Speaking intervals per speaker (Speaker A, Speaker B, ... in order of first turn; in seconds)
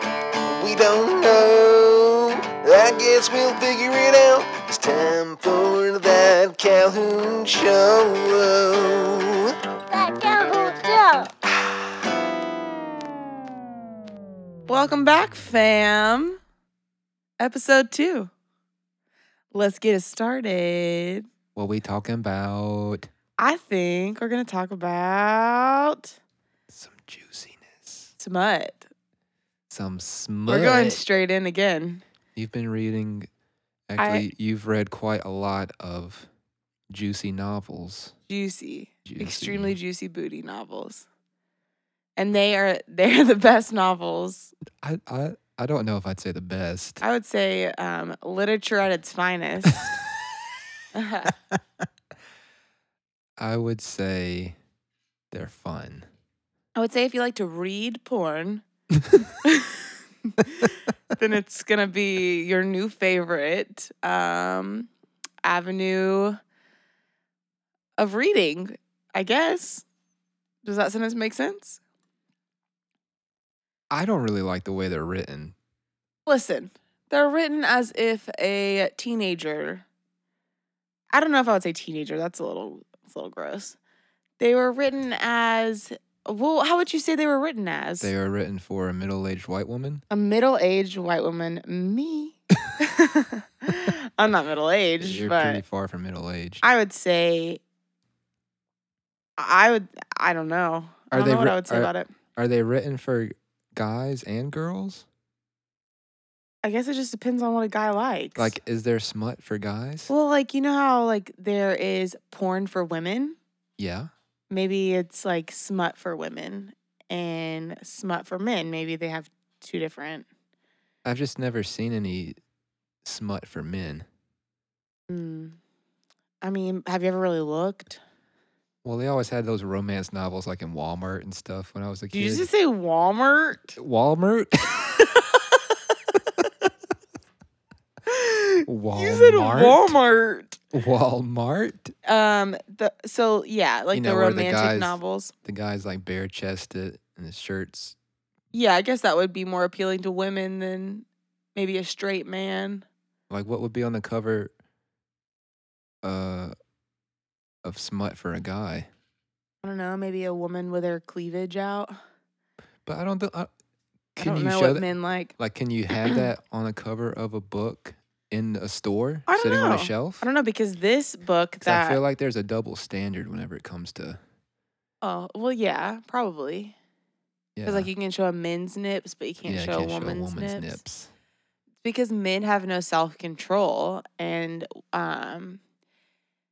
Speaker A: 0.6-9.5
Speaker B: 10.1-11.2, 14.7-16.4, 17.4-18.3, 19.5-21.3, 23.4-26.2, 28.2-28.9, 30.5-32.0, 34.0-34.3, 38.3-41.1, 42.2-44.5, 47.0-49.9, 50.9-51.4, 56.8-58.6, 59.4-64.9, 65.4-66.4, 68.0-69.8, 70.6-71.8, 76.3-79.8, 81.1-83.8, 84.4-88.1, 90.1-95.6, 96.6-97.6, 99.4-102.1, 106.6-108.6, 110.1-113.4, 114.5-120.3, 125.1-125.6, 126.4-128.0, 132.1-133.8, 135.2-135.6, 138.1-140.6, 142.1-145.3, 148.5-152.9, 159.6-162.0, 164.2-165.3, 165.9-166.2, 169.3-172.0, 175.0-176.8, 177.7-180.8, 181.8-185.6
Speaker C: 21.6-23.1, 26.7-28.1, 29.7-31.0, 32.4-33.3, 33.9-36.3, 36.9-38.1, 39.1-39.8, 44.8-47.0, 53.4-54.6, 55.3-56.1, 73.9-75.5, 88.0-90.0, 95.0-96.6, 101.1-105.1, 108.4-110.1, 113.8-114.1, 121.0-122.4, 123.0-124.1, 128.8-132.5, 133.8-135.0, 138.7-139.9, 140.7-141.9, 143.9-148.0, 153.3-154.5, 156.0-156.5, 157.6-158.9, 162.8-163.5, 164.2-170.2, 171.6-174.2, 177.6-177.9, 179.4-181.1